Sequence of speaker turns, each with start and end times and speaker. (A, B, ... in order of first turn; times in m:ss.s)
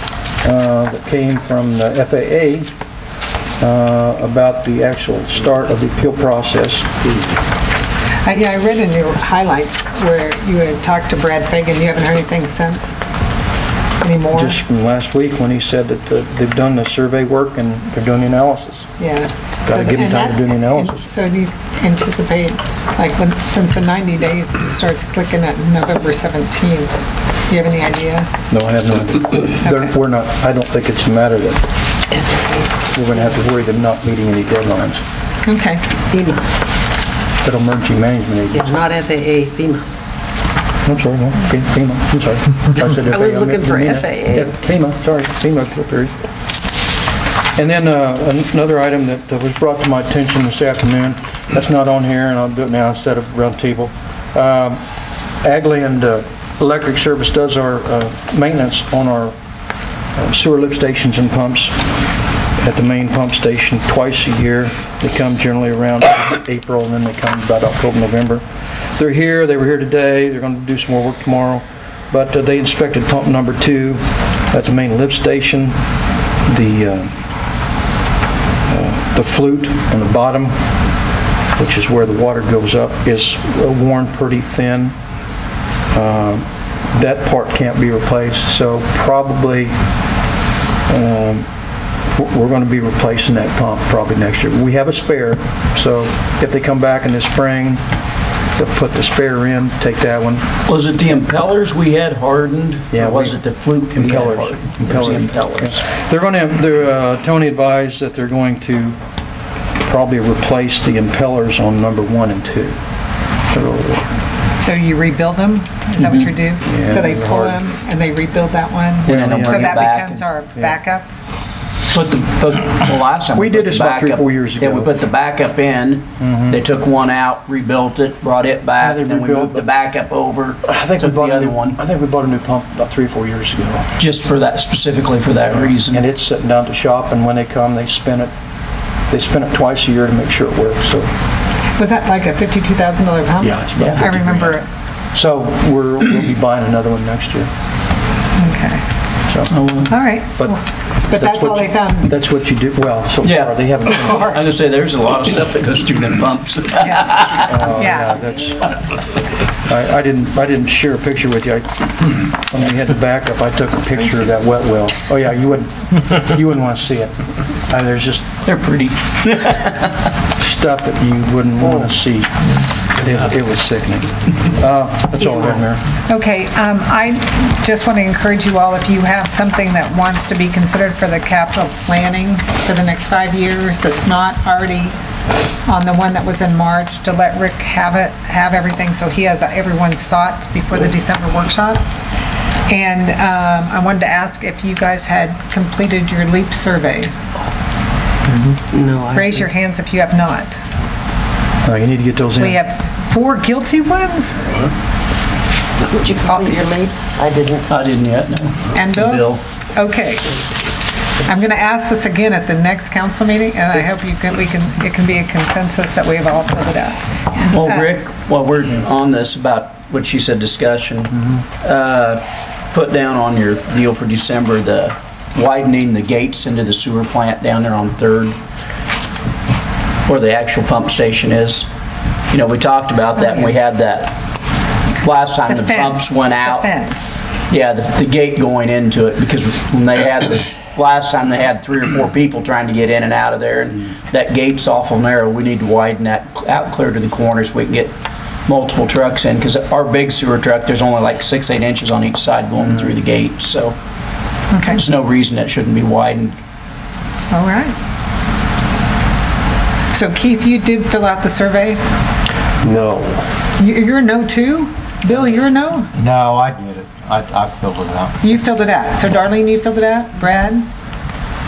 0:00.4-0:02.7 A
0:03.6-0:06.9 A
0:08.2-0:12.9 B
0:14.0-0:14.6 B
0:14.3-0:18.9 A
0:19.0-0:26.9 B
0:19.7-0:21.0 A
0:27.5-0:28.3 B
0:28.5-0:31.6 A
0:32.9-0:35.0 A
0:35.4-0:35.8 B
0:36.1-0:36.4 C
0:37.4-0:38.7 A
0:38.5-0:39.8 C
0:40.8-0:46.1 A
0:42.8-0:44.5 C
0:47.6-0:54.8 A
0:55.4-0:59.3 A
1:00.1-1:02.0 A
1:02.6-1:15.8 A
1:16.4-1:17.1 A
1:18.6-1:20.6 A
1:21.5-1:24.9 A
1:25.9-1:29.7 A
1:30.9-1:31.5 A
1:32.1-1:37.8 A
1:38.5-1:40.4 A
1:40.6-1:45.8 D
1:42.9-1:49.0 A
1:49.8-1:52.8 A
1:53.5-1:54.1 A
1:54.6-2:01.0 B
1:56.0-1:57.6 A
1:59.0-2:00.2 D
1:59.1-1:59.8 A
2:01.9-2:11.8 D
2:03.3-2:04.9 A
2:06.2-2:06.6 A
2:08.8-2:09.7 A
2:10.6-2:13.9 A
2:14.0-2:16.0 D
2:15.7-2:18.3 A
2:19.1-2:21.1 A
2:21.8-2:24.6 B
2:23.4-2:24.5 A
2:23.7-2:24.0 D
2:25.1-2:27.5 A
2:28.4-2:28.8 B
2:29.3-2:29.5 A
2:29.5-2:30.0 D
2:29.9-2:32.1 B
2:31.1-2:34.4 A
2:33.2-2:37.7 D
2:37.4-2:38.8 A
2:37.7-2:38.2 B
2:39.7-2:47.1 A
2:47.6-2:48.3 A
2:48.4-2:50.0 D
2:50.3-2:55.8 A
2:55.1-2:55.6 C
2:56.1-3:05.0 B
3:05.6-3:11.8 B
3:12.7-3:17.1 B
3:18.7-3:19.5 C
3:19.1-3:20.6 B
3:21.6-3:22.6 A
3:22.4-3:24.6 B
3:25.8-3:27.7 C
3:26.2-3:26.6 B
3:27.7-3:29.4 D
3:28.8-3:30.4 B
3:31.2-3:37.9 B
3:37.4-3:48.4 D
3:50.0-3:51.7 D
3:52.3-3:54.2 D
3:53.2-3:53.5 B
3:55.0-3:56.7 D
3:55.5-3:57.1 B
3:57.5-4:07.9 D
4:08.5-4:13.8 D
4:14.5-4:14.8 B
4:14.7-4:16.4 D
4:17.3-4:17.7 B
4:19.9-4:21.8 B
4:22.6-4:23.2 E
4:23.6-4:25.9 B
4:26.0-4:28.6 E
4:28.2-4:30.7 B